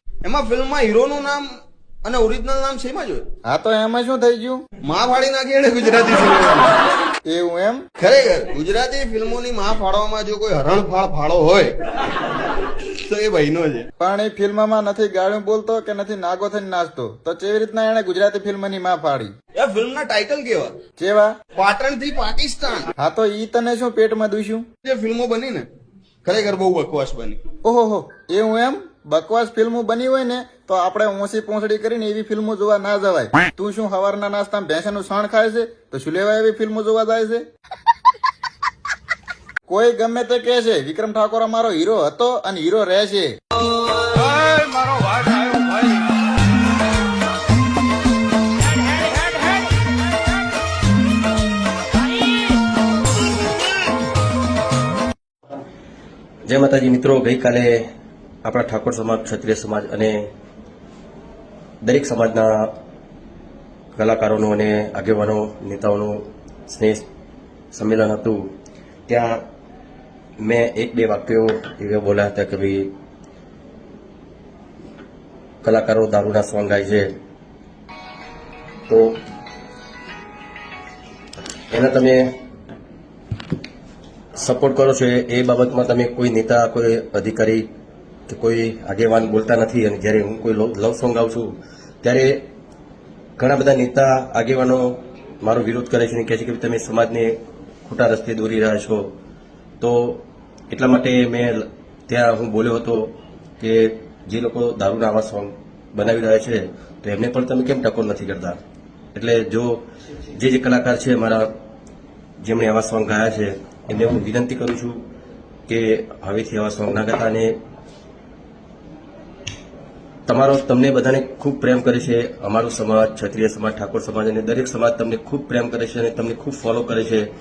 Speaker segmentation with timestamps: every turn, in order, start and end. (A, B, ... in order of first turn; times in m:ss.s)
0:00.2-0:01.5 A
0:02.0-0:03.3 A
0:03.5-0:04.6 B
0:04.8-0:06.8 A
0:07.3-0:07.8 B
0:08.0-0:11.8 A
0:13.0-0:13.9 A
0:14.0-0:19.3 B
0:19.6-0:20.8 A
0:21.0-0:21.3 B
0:21.5-0:22.9 A
0:23.0-0:24.7 B
0:24.8-0:25.7 A
0:26.2-0:27.4 A
0:27.6-0:37.4 B
0:39.7-0:43.3 B
0:44.2-0:44.4 A
0:56.5-0:57.8 C
0:58.4-1:00.2 C
1:01.8-1:02.7 C
1:04.0-1:07.0 C
1:07.7-1:08.5 C
1:09.1-1:09.4 C
1:10.4-1:12.9 C
1:15.6-1:17.1 C
1:18.9-1:19.2 C
1:21.7-1:22.3 C
1:24.4-1:27.7 C
1:28.3-1:32.4 C
1:33.4-1:37.3 C
1:37.9-1:39.0 C
1:39.8-1:48.6 C
1:49.2-1:49.8 C
1:50.4-1:51.5 C
1:52.4-1:55.0 C
1:55.7-1:57.5 C
2:00.3-2:07.3 C